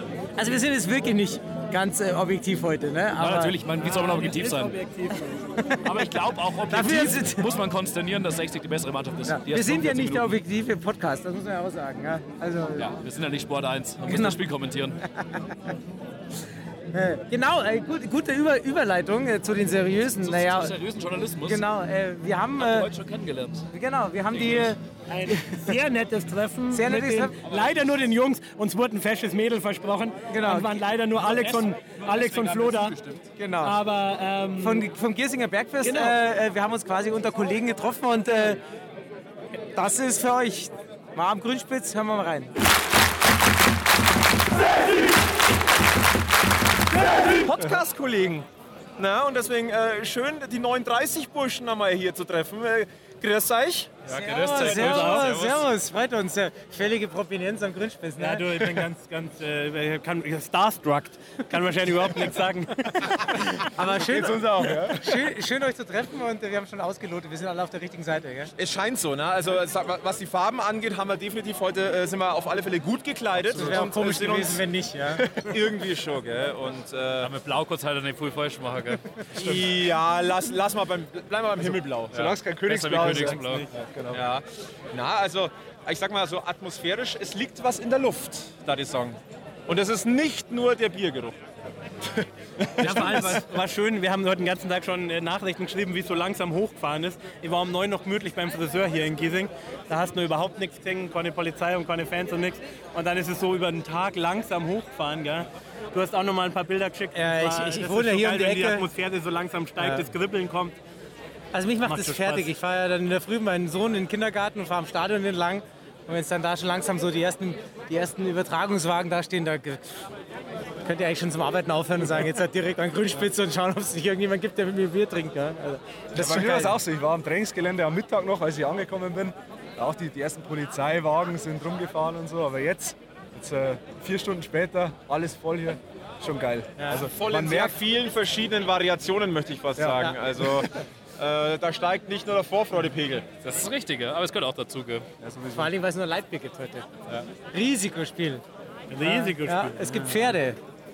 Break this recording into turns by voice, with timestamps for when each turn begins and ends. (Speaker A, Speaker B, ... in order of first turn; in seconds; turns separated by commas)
Speaker A: 0.4-3.6, Speaker B: 3.2-4.7, Speaker C: 3.8-5.7, Speaker A: 5.6-6.1, Speaker B: 5.8-10.3, Speaker A: 6.7-7.5, Speaker A: 9.3-12.9, Speaker B: 12.8-15.0, Speaker A: 14.1-14.4, Speaker A: 15.1-15.6, Speaker A: 16.9-20.8, Speaker B: 20.1-21.6, Speaker A: 21.4-22.9, Speaker B: 22.6-23.6, Speaker A: 23.7-25.7, Speaker B: 24.4-24.7, Speaker C: 25.1-33.0, Speaker A: 26.7-27.4, Speaker A: 30.3-30.8, Speaker B: 31.2-33.3, Speaker A: 33.4-33.8, Speaker C: 33.6-34.9, Speaker A: 34.6-38.6, Speaker C: 35.8-36.1, Speaker A: 39.8-42.5, Speaker D: 47.0-54.0, Speaker B: 54.1-55.7, Speaker A: 54.2-58.8, Speaker C: 54.7-55.4, Speaker C: 58.2-63.5, Speaker A: 63.8-68.5, Speaker D: 63.8-65.1, Speaker D: 68.6-74.6, Speaker A: 73.5-75.3, Speaker E: 73.6-73.9, Speaker D: 75.2-77.3, Speaker B: 77.2-79.0, Speaker D: 79.4-83.3, Speaker B: 82.1-83.9, Speaker E: 82.4-84.2, Speaker D: 84.1-91.4, Speaker D: 92.8-93.4, Speaker C: 92.8-110.8, Speaker A: 107.1-108.9, Speaker A: 109.8-110.0, Speaker A: 111.5-119.9, Speaker C: 111.8-112.5, Speaker A: 120.8-126.8, Speaker D: 126.2-126.6, Speaker E: 126.2-137.7, Speaker D: 137.0-143.3, Speaker E: 139.8-140.7, Speaker B: 143.4-145.1, Speaker E: 145.3-145.7, Speaker A: 145.5-146.9, Speaker A: 147.4-148.4, Speaker C: 148.9-150.3, Speaker A: 149.0-150.6